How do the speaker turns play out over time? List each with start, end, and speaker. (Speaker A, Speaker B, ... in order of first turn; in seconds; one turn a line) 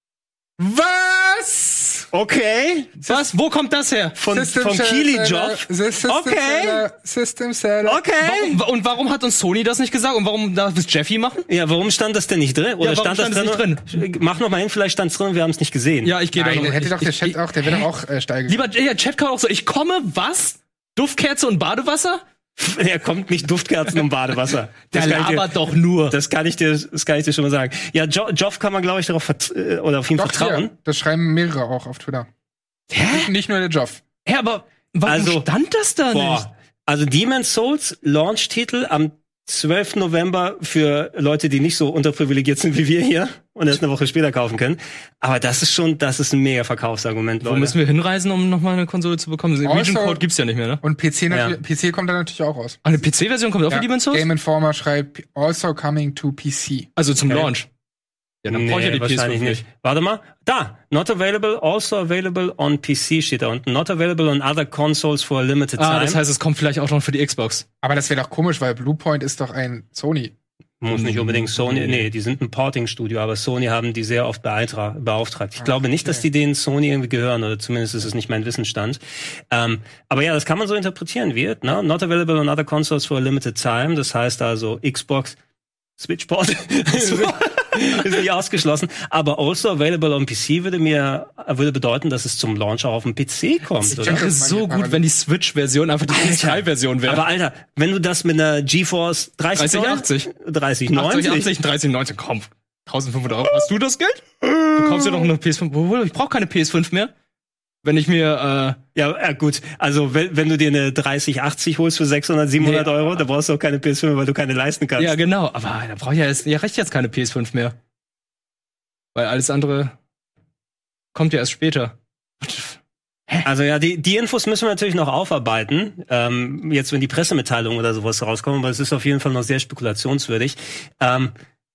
Speaker A: 0.6-2.1
Speaker B: 2.1-2.9
Speaker C: 3.0-4.2
Speaker B: 4.2-6.8
Speaker A: 4.3-8.0
Speaker B: 7.8-8.6
Speaker C: 8.2-11.4
Speaker B: 11.5-16.1
Speaker C: 12.8-13.8
Speaker C: 16.0-17.9
Speaker A: 16.3-18.7
Speaker C: 18.5-22.2
Speaker B: 22.6-30.7
Speaker C: 24.9-26.1
Speaker A: 30.1-32.3
Speaker C: 32.9-33.3
Speaker A: 33.1-34.0
Speaker C: 34.3-36.5
Speaker B: 35.1-35.5
Speaker B: 36.1-47.8
Speaker C: 47.4-50.8
Speaker A: 49.6-50.2
Speaker A: 50.8-52.8
Speaker B: 51.3-51.5
Speaker C: 52.8-54.3
Speaker A: 53.7-56.9
Speaker C: 57.0-57.7
Speaker C: 58.4-59.6
Speaker B: 58.5-66.2
Speaker C: 65.8-67.7
Speaker A: 67.8-70.3
Speaker B: 70.8-79.0
Speaker C: 70.9-72.1
Speaker A: 75.6-76.3
Speaker B: 79.5-85.4
Speaker B: 86.0-94.3
Speaker C: 87.0-87.5
Speaker A: 93.9-95.0
Speaker C: 93.9-97.2
Speaker B: 96.1-101.5
Speaker C: 99.5-100.3
Speaker C: 100.9-107.1
Speaker C: 107.8-108.8
Speaker B: 108.9-115.1
Speaker C: 112.6-112.9
Speaker C: 115.0-117.8
Speaker C: 119.1-119.9
Speaker C: 121.1-123.5
Speaker B: 123.4-131.3